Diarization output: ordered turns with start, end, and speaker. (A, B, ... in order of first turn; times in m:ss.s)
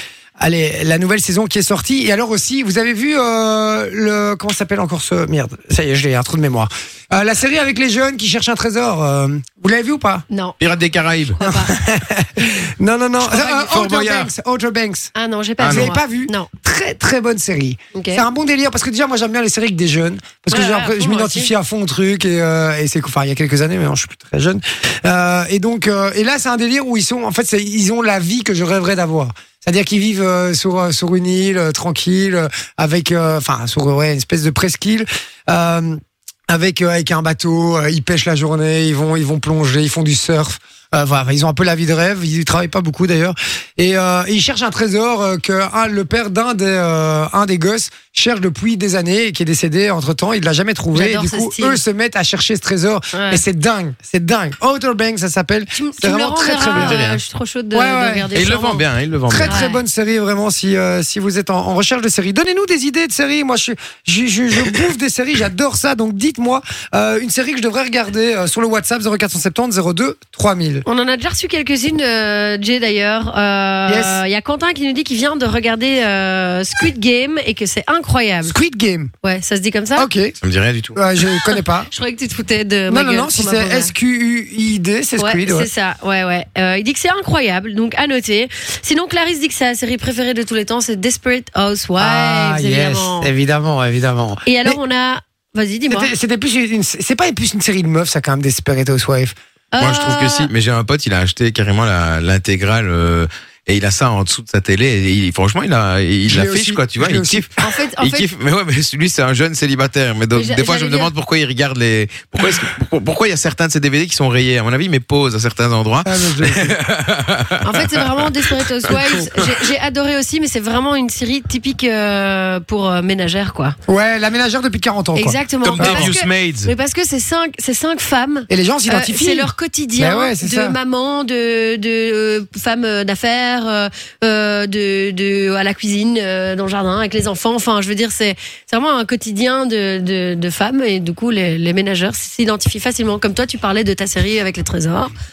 0:00.4-0:10.2 A
0:10.3-0:10.6 B
0:10.6-0:11.4 C
0:11.4-0:11.8 B
0:11.5-0:15.1 A
0:13.2-0:14.3 C
0:15.2-0:16.5 B
0:15.6-0:15.9 C
0:15.6-0:57.0 A
0:17.9-0:18.2 B
0:20.5-0:21.5 B
0:50.9-0:51.8 B
0:53.1-0:53.4 B
0:55.7-0:58.8 B
0:56.7-0:57.2 C
0:57.7-0:58.3 A
0:58.3-0:59.6 C
0:59.3-1:10.8 A
0:59.5-0:59.8 B
1:10.9-1:18.6 B
1:13.9-1:14.2 A
1:18.4-1:19.1 A
1:19.2-1:20.1 B
1:20.0-1:20.4 A
1:20.4-1:21.0 C
1:21.0-1:21.9 A
1:21.5-1:23.9 B
1:22.9-1:25.7 A
1:25.2-1:33.3 B
1:32.0-1:34.8 A
1:34.5-1:36.1 B
1:35.9-1:39.4 A
1:39.7-1:40.5 B
1:39.8-1:59.6 C
1:46.3-1:47.5 A
1:47.6-1:48.3 B
1:50.3-1:51.1 B
1:56.0-1:56.8 A
1:57.6-2:03.8 B
2:03.9-2:06.1 A
2:05.2-2:25.1 B
2:05.6-2:06.7 C
2:08.5-2:10.8 A